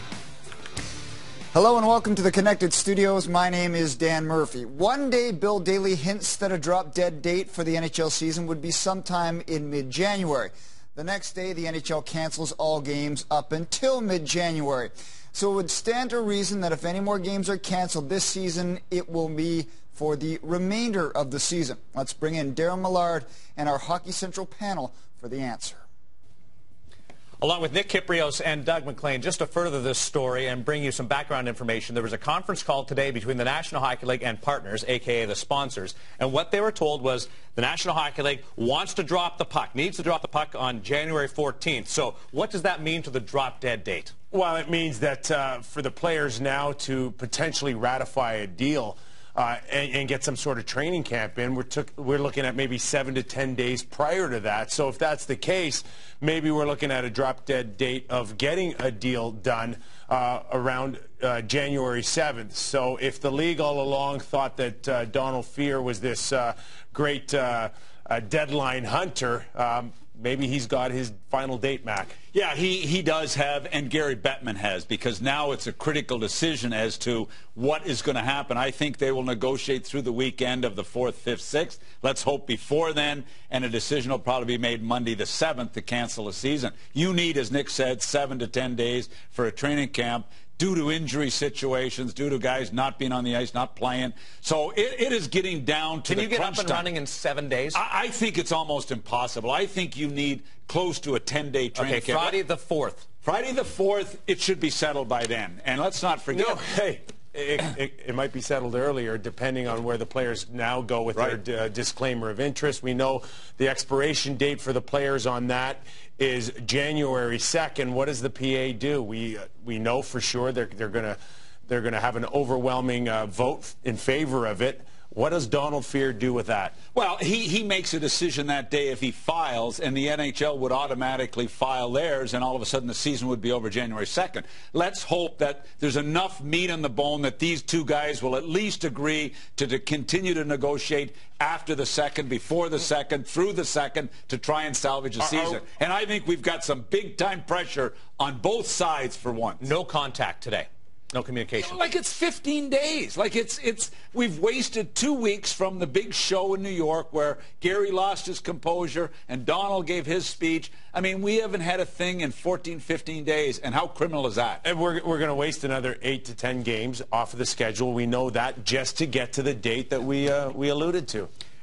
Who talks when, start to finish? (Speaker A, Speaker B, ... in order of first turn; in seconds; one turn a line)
Speaker A: 1.5-25.8
Speaker B: 27.4-44.1
Speaker C: 44.3-72.2
Speaker D: 72.3-96.9
Speaker B: 96.0-97.8
Speaker D: 97.7-102.4
Speaker B: 101.7-103.1
Speaker D: 103.2-106.6
Speaker C: 106.3-126.8
Speaker D: 126.9-149.7
Speaker B: 149.6-151.8
Speaker D: 151.6-164.6
Speaker C: 164.6-171.3